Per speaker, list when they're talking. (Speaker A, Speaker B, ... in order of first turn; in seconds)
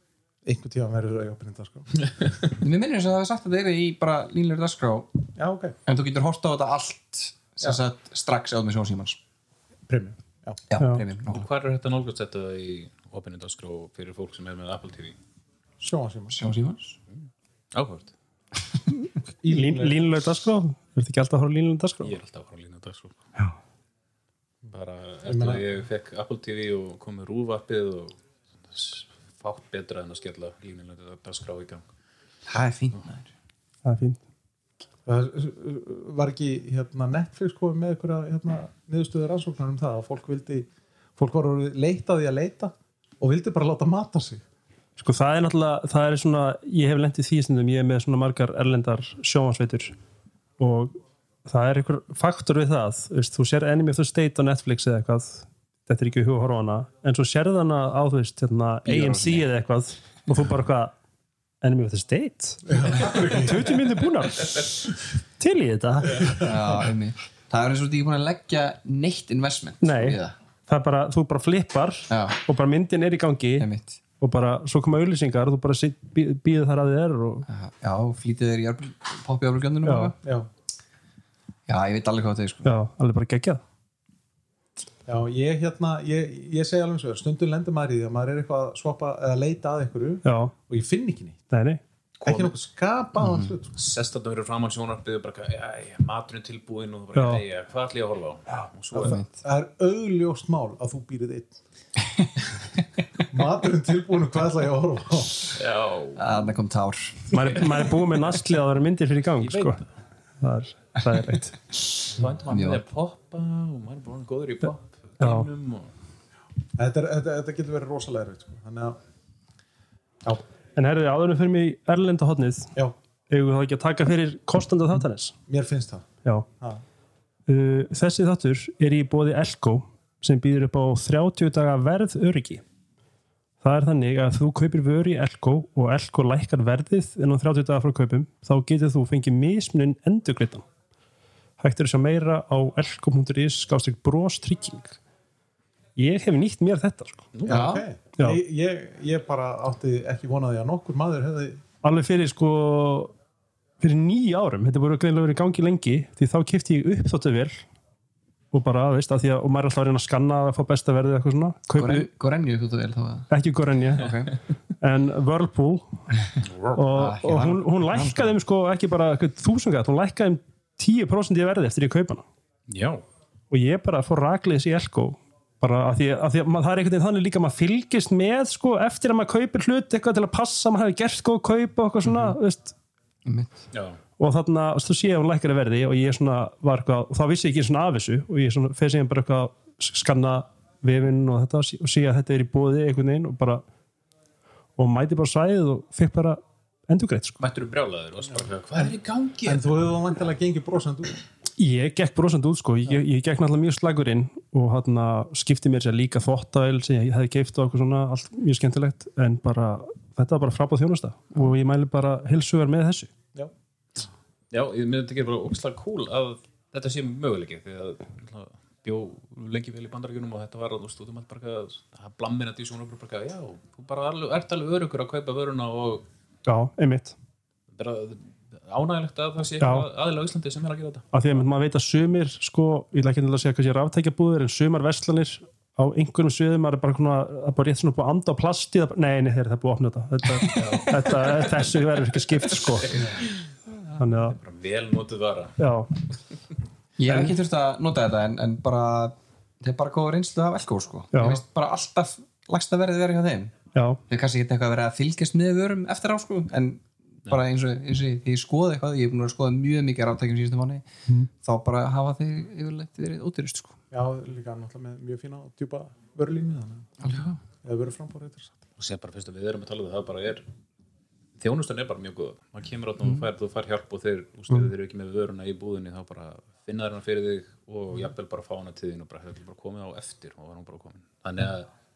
Speaker A: 0.4-2.4, 5.4-5.8, 9.9-10.6, 15.8-16.4, 19.4-20.3, 25.2-25.6, 35.0-44.4, 62.6-63.8, 80.2-80.5, 85.1-91.4, 92.2-93.8, 98.9-101.6, 103.3-105.6, 116.8-119.0, 125.5-126.1, 147.4-151.6, 198.8-201.2, 263.9-266.9, 267.6-268.6
Speaker B: 2.6-5.2, 5.9-9.2, 10.7-11.5, 16.3-16.9, 32.5-33.2, 58.9-59.5, 66.3-70.3, 72.1-72.4, 73.6-74.0, 77.5-80.2, 81.7-82.7, 93.2-93.5, 99.0-99.3, 106.2-107.4, 112.5-112.8, 147.4-147.9, 161.8-163.3, 163.9-164.4, 166.9-168.3, 183.2-183.6, 247.0-253.5, 254.1-260.9, 261.4-263.8, 267.0-267.4
Speaker C: 11.3-15.2, 17.7-18.1, 22.0-23.2, 24.7-28.1, 28.7-31.8, 92.2-92.5, 93.8-99.2, 105.5-106.4, 109.4-109.8, 112.1-115.9, 147.3-147.7, 166.4-166.8, 172.7-173.0, 183.7-184.0, 197.4-199.7, 214.5-226.0, 227.7-231.1, 240.5-241.5, 244.2-245.6, 268.8-270.4, 271.4-281.7
Speaker D: 19.5-22.1, 33.9-34.2, 45.0-49.9, 50.6-60.9, 61.6-66.5, 69.8-73.7, 74.2-77.5, 79.8-80.1, 82.6-83.6, 90.2-90.5, 91.5-91.8, 97.2-97.4, 107.3-109.8, 110.4-111.6, 115.2-115.5, 120.8-122.7, 123.3-125.4, 127.5-132.6, 133.6-140.7, 141.6-145.0, 145.9-147.3, 151.8-153.1, 153.8-157.6, 158.5-162.1, 163.3-164.2, 164.8-166.0, 166.7-172.2, 173.5-182.7, 184.2-193.6, 194.8-197.4, 201.6-213.1, 226.4-227.1, 229.6-229.9, 231.1-243.0, 244.0-244.4, 245.6-245.9, 247.1-247.3, 251.1-251.4